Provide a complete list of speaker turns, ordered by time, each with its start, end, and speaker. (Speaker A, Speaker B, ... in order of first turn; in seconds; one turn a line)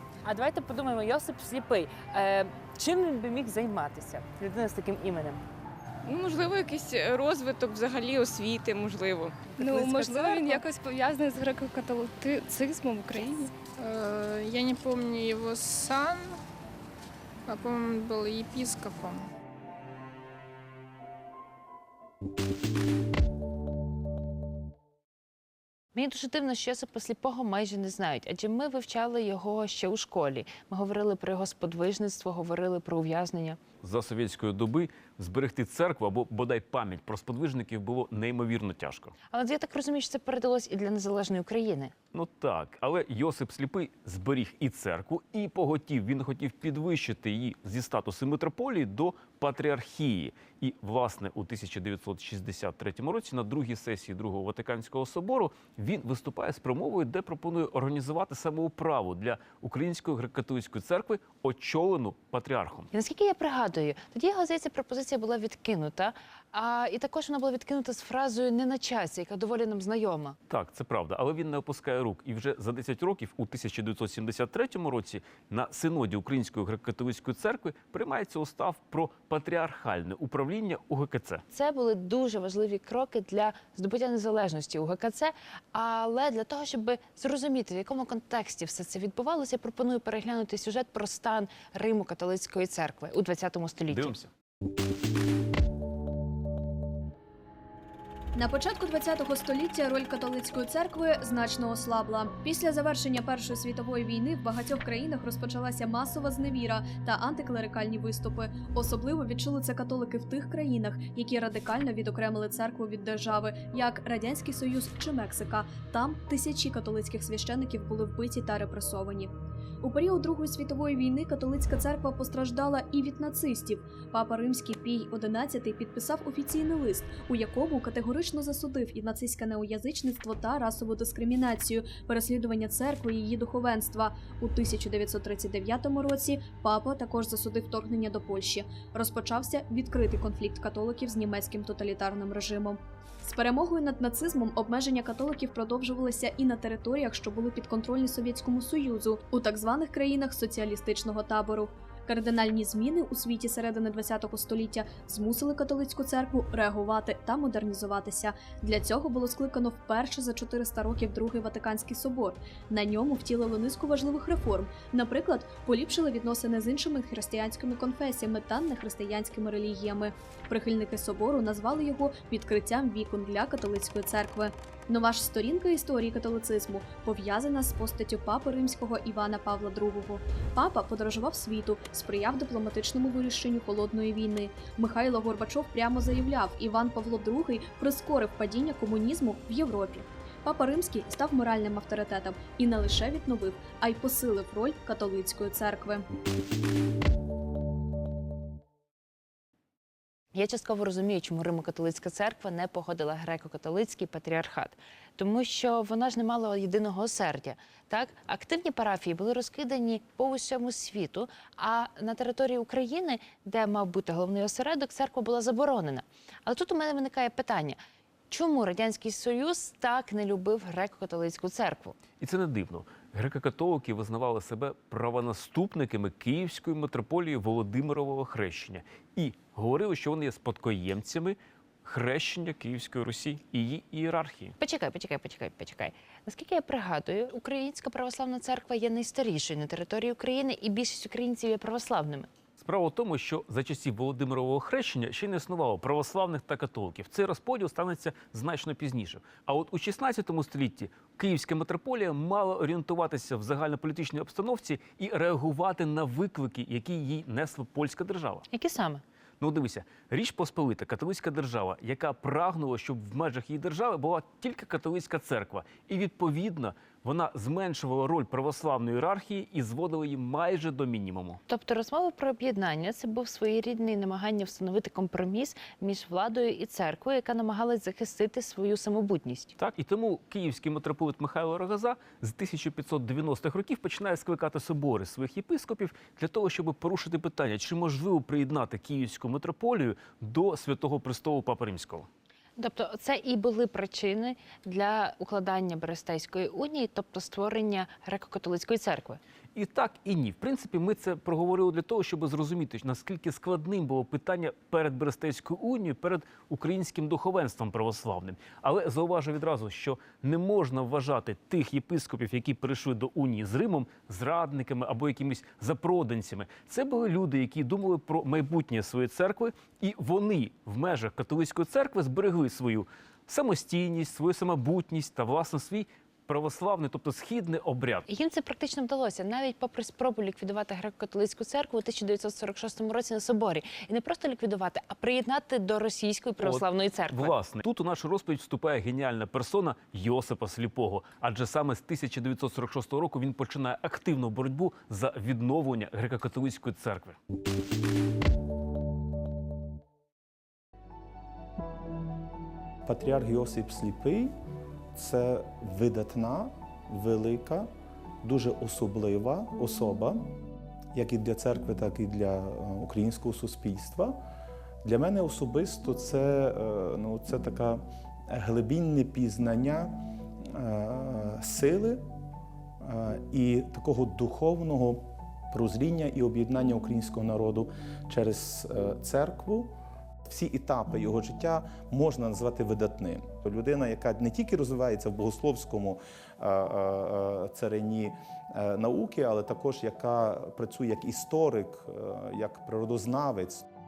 Speaker A: 0.2-5.4
Speaker B: 6.0-10.6
Speaker C: 9.6-13.6
Speaker D: 13.7-16.4
Speaker D: 17.5-19.3
Speaker A: 25.9-33.6
Speaker E: 33.8-39.1
Speaker A: 39.3-41.9
Speaker E: 42.1-62.9
Speaker A: 62.9-70.4
Speaker E: 70.5-81.4
Speaker A: 81.5-94.1
Speaker E: 93.9-94.3
Speaker F: 98.4-196.1
Speaker A: 200.3-217.8
Speaker A: 218.3-222.0
Speaker E: 222.2-234.6
Speaker A: 234.6-242.3
Speaker E: 242.6-258.5
Speaker A: 258.5-259.0
Speaker E: 259.4-271.4
Speaker A: 271.5-279.6
Speaker E: 279.6-292.1
Speaker A: 292.6-299.2
Speaker E: 299.6-328.1
Speaker A: 328.1-337.3
Speaker E: 336.4-347.2
Speaker G: 352.9-354.4
Speaker G: 354.9-357.7
Speaker G: 358.2-360.3
Speaker G: 360.9-364.2
Speaker G: 364.8-372.1
Speaker G: 372.8-379.7
Speaker G: 380.2-393.7